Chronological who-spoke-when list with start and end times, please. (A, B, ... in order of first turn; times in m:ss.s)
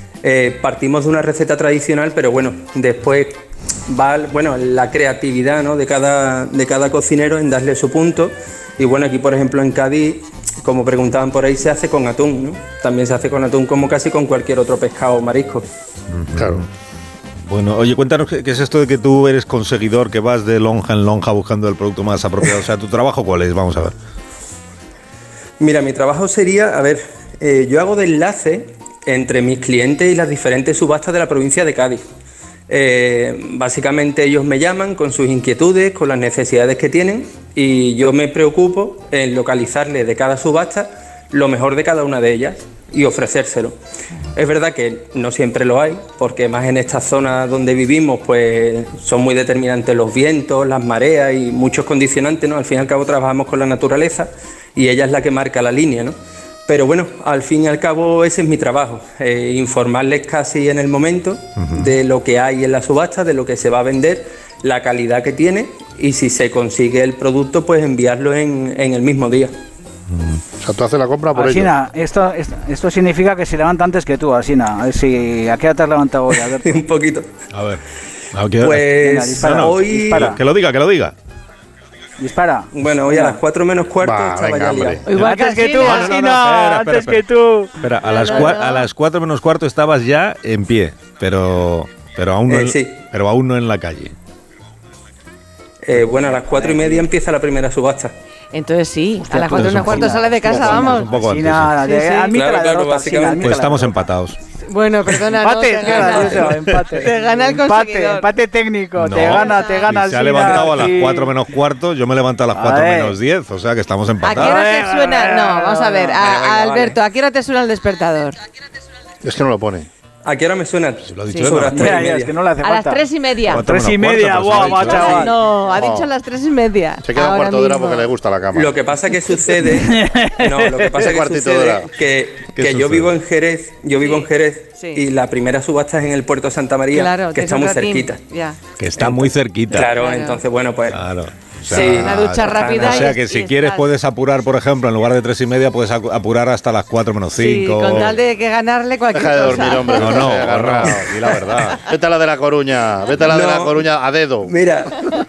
0:00.2-0:15.7 A
0:16.1-0:16.7 B
0:16.4-0:16.6 C
0:17.4-0:23.9 B
0:25.6-0:32.0 A
0:32.7-0:43.8 A
0:44.4-0:56.2 A
0:56.7-1:09.5 A
1:01.6-1:01.9 B
1:10.1-1:10.4 B
1:10.6-1:11.7 C
1:11.3-1:16.8 D
1:16.5-1:17.3 A
1:17.5-1:18.9 B
1:18.6-1:20.4 A
1:19.0-1:20.4 D
1:19.4-1:21.2 B
1:22.2-1:23.4 D
1:22.7-1:25.0 A
1:24.0-1:25.0 C
1:25.1-1:26.1 E
1:25.1-1:27.7 D
1:25.2-1:34.2 B
1:28.1-1:28.9 E
1:32.5-1:33.0 A
1:35.8-1:38.1 A
1:36.4-1:37.1 D
1:38.5-1:41.1 E
1:39.3-1:44.1 D
1:39.5-1:41.8 B
1:41.8-1:42.3 E
1:42.2-1:43.5 A
1:43.4-1:44.4 B
1:44.7-1:48.3 E
1:45.3-1:51.4 D
1:49.0-1:54.6 B
1:49.4-1:49.8 E
1:52.5-1:53.2 D
1:54.2-1:58.4 E
1:54.3-1:57.0 D
1:59.2-1:59.9 C
2:00.2-2:02.4 A
2:01.1-2:01.9 B
2:01.2-2:01.5 E
2:01.6-2:05.4 D
2:02.6-2:03.6 E
2:03.5-2:05.3 B
2:04.6-2:08.1 E
2:05.7-2:06.1 C
2:07.0-2:08.8 C
2:08.5-2:18.2 A
2:09.6-2:11.0 D
2:11.0-2:11.9 C
2:12.6-2:13.1 B
2:14.0-2:15.1 E
2:16.9-2:18.6 E
2:18.8-2:19.9 B
2:19.0-2:21.0 A
2:19.8-2:20.4 E
2:20.9-2:28.2 B
2:21.7-2:23.2 A
2:21.7-2:23.9 E
2:27.4-2:30.3 E
2:29.1-2:31.3 C
2:29.9-2:31.8 B
2:31.8-2:34.5 C
2:33.2-2:33.9 A
2:34.4-2:35.1 A